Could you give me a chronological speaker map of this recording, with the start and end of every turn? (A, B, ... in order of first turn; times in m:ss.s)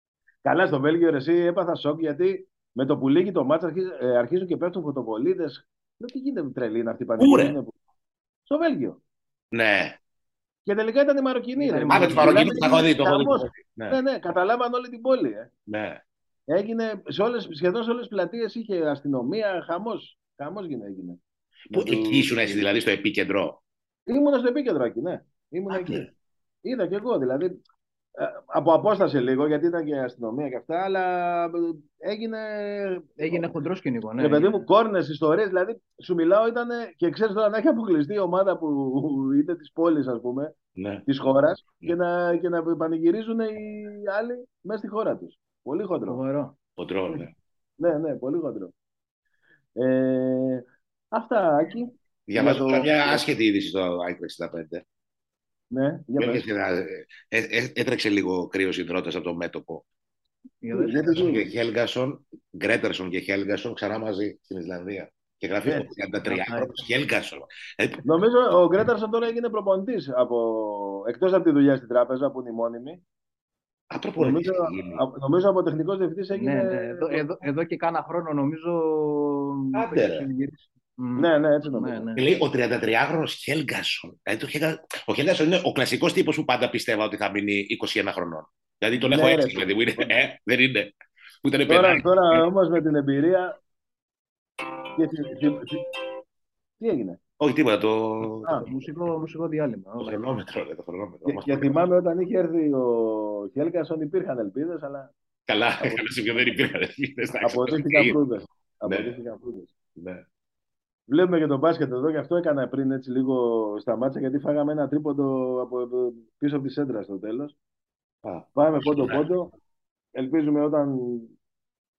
0:00.4-0:07.7 A
0:07.2-0:07.6 B
0:08.5-0:09.0 A
0:09.5-0:10.0 B
0:10.6-0:15.5 A
0:11.5-0:12.8 C
0:11.9-0:14.0 B
0:15.7-0:16.0 B
0:16.5-0:21.2 A
0:21.7-0:22.6 A
0:21.7-0:23.6 B
0:24.1-0:26.1 A
0:25.7-0:26.1 B
0:26.6-0:27.6 A
0:28.2-0:33.6 A
0:33.2-0:34.7 C
0:34.2-0:40.5 A
0:40.8-0:41.0 B
0:41.0-0:46.2 A
0:46.1-0:46.5 C
0:46.8-0:47.3 B
0:47.8-0:48.7 A
0:49.8-0:53.2 A
0:52.3-0:54.8 B
0:55.7-0:56.5 A
0:56.2-0:59.8 B
1:00.6-1:01.0 C
1:00.7-1:01.5 A
1:01.1-1:08.0 B
1:05.6-1:05.9 A
1:06.2-1:06.7 C
1:08.0-1:13.0 A
1:13.9-1:15.0 B
1:14.2-1:17.3 A
1:16.3-1:22.3 C
1:19.7-1:20.3 B
1:21.2-1:22.0 A
1:22.2-1:32.4 B
1:28.9-1:30.1 A
1:31.7-1:33.6 A
1:35.0-1:35.8 A
1:36.8-1:37.2 A
1:37.4-1:38.6 B
1:38.5-1:40.2 C
1:40.0-1:41.8 B
1:41.2-1:45.1 A
1:45.5-1:48.2 B
1:45.8-1:46.1 A
1:47.4-1:49.7 A
1:48.8-1:49.2 B
1:50.0-1:50.2 B
1:51.1-1:57.6 A
1:58.2-1:59.3 B
1:58.5-1:59.5 A
2:00.2-2:01.4 A